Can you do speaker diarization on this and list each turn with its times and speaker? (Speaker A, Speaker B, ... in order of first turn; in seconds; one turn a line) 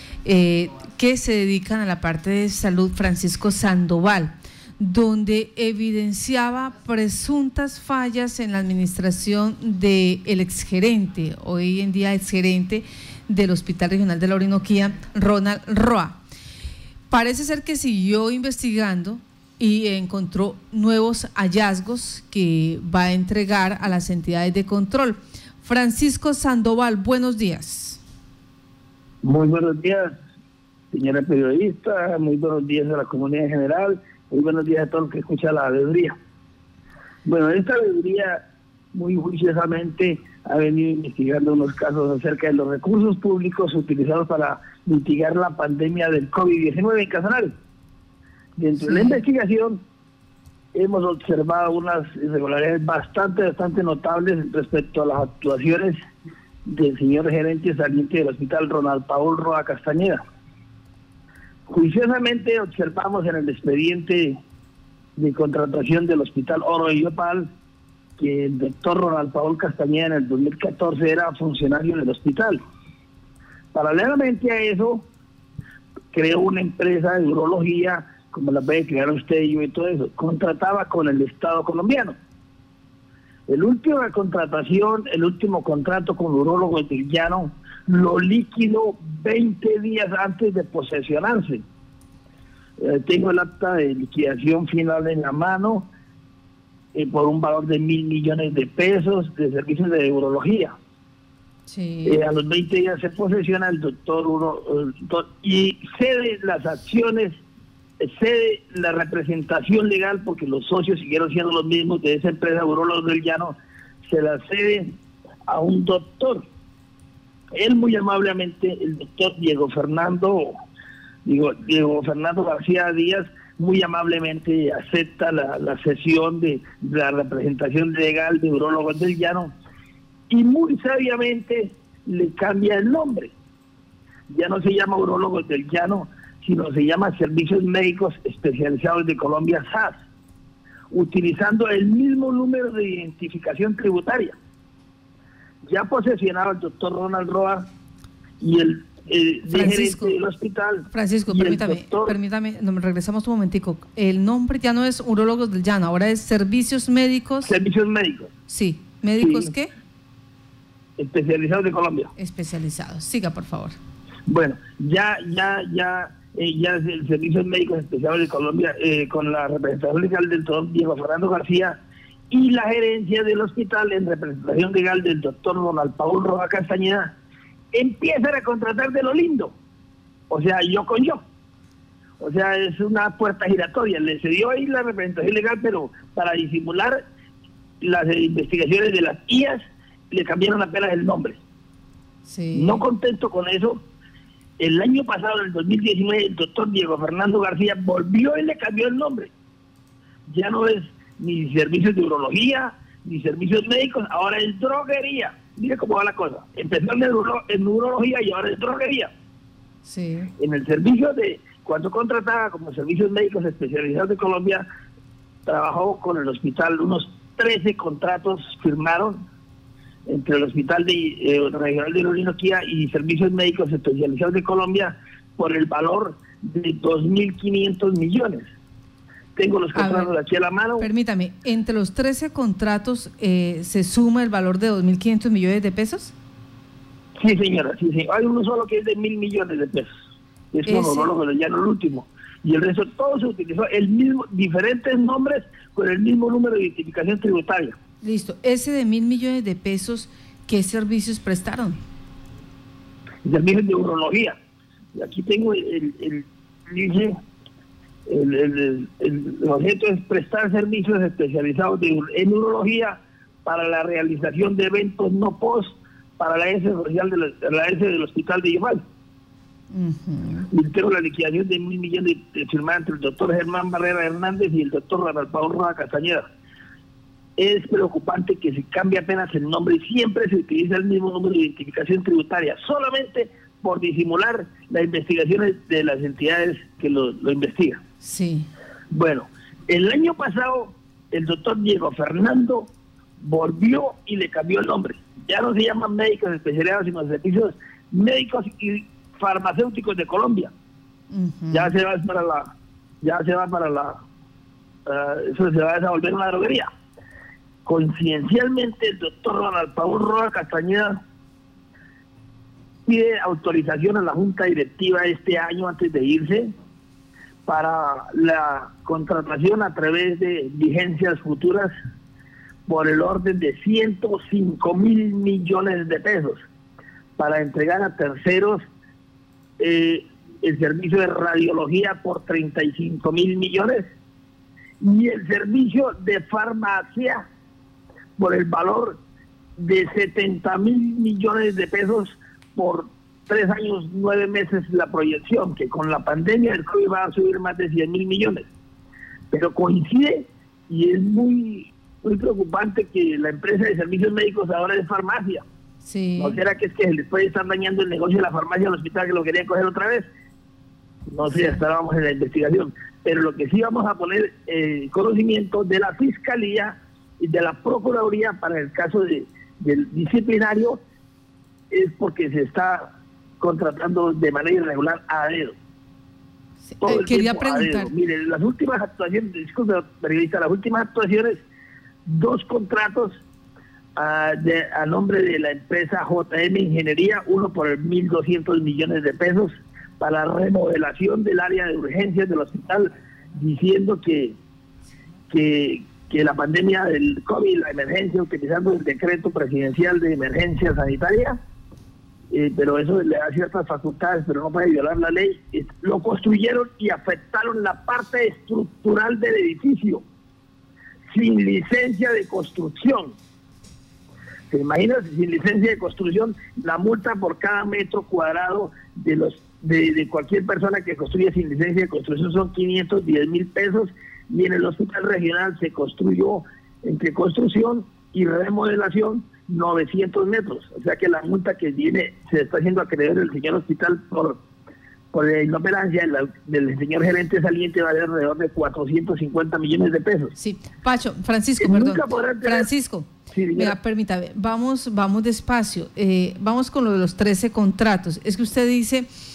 Speaker A: 0.2-16.2
Speaker A: 17.1-28.0
Speaker B: 29.2-30.1
Speaker B: 30.9-36.1
Speaker B: 37.2-38.4
Speaker B: 38.9-47.5
Speaker B: 48.6-49.8
Speaker A: 48.8-49.2
Speaker B: 50.7-55.9
Speaker B: 56.7-60.2
Speaker B: 61.7-64.4
Speaker B: 65.2-67.5
Speaker B: 68.2-72.6
Speaker B: 73.7-75.1
Speaker B: 76.1-82.2
Speaker B: 83.5-91.6
Speaker B: 92.8-95.9
Speaker B: 97.0-100.7
Speaker A: 101.7-102.2
Speaker B: 102.1-107.3
Speaker B: 108.0-113.6
Speaker B: 114.1-114.9
Speaker B: 115.5-116.5
Speaker B: 117.6-120.5
Speaker B: 121.3-129.5
Speaker B: 130.3-133.3
Speaker B: 134.3-139.9
Speaker B: 140.9-144.4
Speaker B: 145.7-147.7
Speaker B: 148.4-152.2
Speaker A: 149.5-150.2
Speaker A: 150.9-157.5
Speaker B: 157.4-158.3
Speaker A: 158.5-159.7
Speaker B: 159.2-159.5
Speaker B: 161.0-162.1
Speaker A: 162.2-163.8
Speaker B: 164.3-171.8
Speaker B: 172.3-177.1
Speaker B: 177.7-179.6
Speaker B: 180.3-181.2
Speaker B: 182.2-187.0
Speaker B: 187.8-189.6
Speaker B: 190.1-191.4
Speaker A: 192.3-192.8
Speaker B: 192.5-193.8
Speaker B: 194.6-199.3
Speaker B: 200.3-209.1
Speaker A: 209.8-210.3
Speaker B: 210.4-214.6
Speaker B: 215.5-219.2
Speaker B: 220.1-228.5
Speaker B: 229.4-230.9
Speaker A: 229.8-230.1
Speaker A: 230.8-236.1
Speaker B: 237.2-239.9
Speaker B: 240.5-247.8
Speaker A: 240.7-241.1
Speaker A: 248.0-251.8
Speaker B: 253.2-254.4
Speaker B: 255.0-257.1
Speaker B: 258.1-268.8
Speaker A: 269.7-270.5
Speaker B: 270.5-276.2
Speaker B: 277.4-287.8
Speaker A: 288.0-288.5
Speaker B: 288.9-300.5
Speaker A: 301.1-301.7
Speaker B: 301.5-302.5
Speaker B: 303.0-304.0
Speaker B: 304.9-306.7
Speaker B: 307.7-310.9
Speaker B: 312.9-316.5
Speaker B: 317.5-321.7
Speaker B: 322.7-326.4
Speaker B: 327.2-328.6
Speaker B: 329.6-333.8
Speaker B: 334.8-337.2
Speaker B: 338.2-339.0
Speaker B: 339.6-348.5
Speaker B: 349.3-355.4
Speaker A: 355.8-356.4
Speaker B: 356.2-360.1
Speaker B: 361.1-370.8
Speaker A: 361.3-361.6
Speaker B: 371.7-372.9
Speaker B: 373.4-375.6
Speaker A: 376.6-377.9
Speaker B: 376.8-381.4
Speaker B: 382.1-383.1
Speaker B: 384.0-394.4
Speaker B: 395.3-401.4
Speaker B: 402.3-410.0
Speaker B: 411.1-413.1
Speaker B: 414.5-434.4
Speaker B: 435.1-440.4
Speaker A: 440.4-449.1
Speaker B: 441.6-442.7
Speaker B: 443.3-443.8